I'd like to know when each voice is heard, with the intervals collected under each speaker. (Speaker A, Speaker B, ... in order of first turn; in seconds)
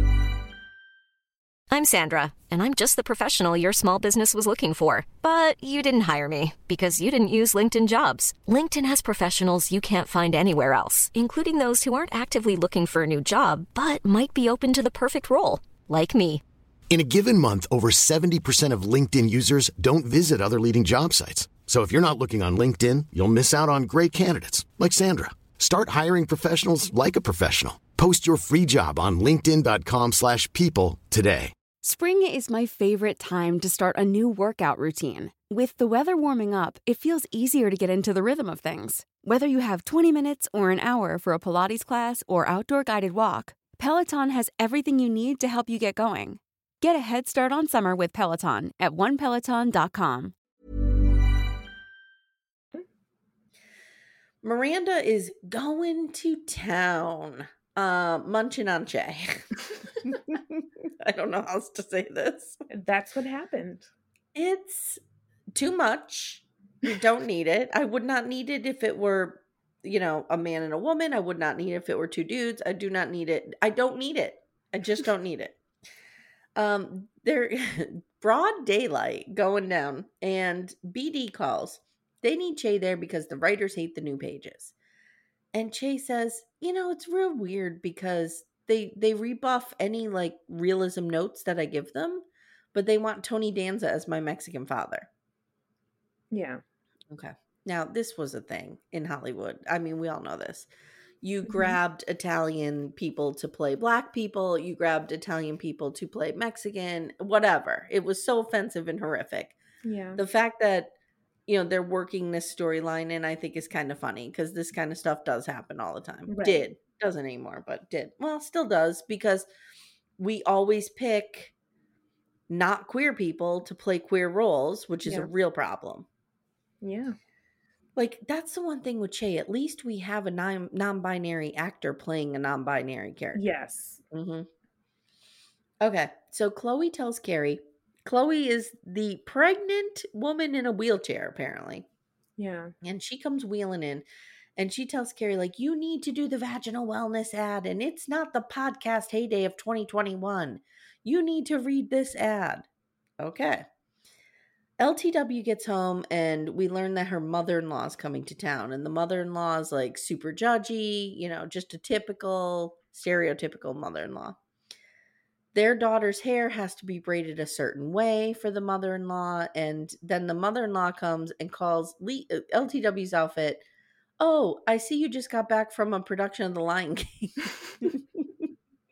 Speaker A: 1.7-16.4
Speaker B: 16.9-31.5
Speaker C: 31.8-50.3
Speaker D: 54.4-62.6, 64.3-65.0, 65.5-75.5, 76.5-84.7, 85.5-95.1, 97.1-100.7, 101.2-109.5, 110.2-110.9, 111.5-119.5, 120.2-121.5, 122.5-126.1, 128.0-133.4, 134.1-134.5, 135.8-141.8, 142.8-152.7, 153.2-153.7, 154.8-164.4, 165.5-173.6, 174.2-178.5
Speaker E: 62.7-63.9, 96.3-96.6, 101.5-101.8, 109.8-110.2, 116.3-116.6, 126.8-127.2, 133.3-134.0, 142.4-142.7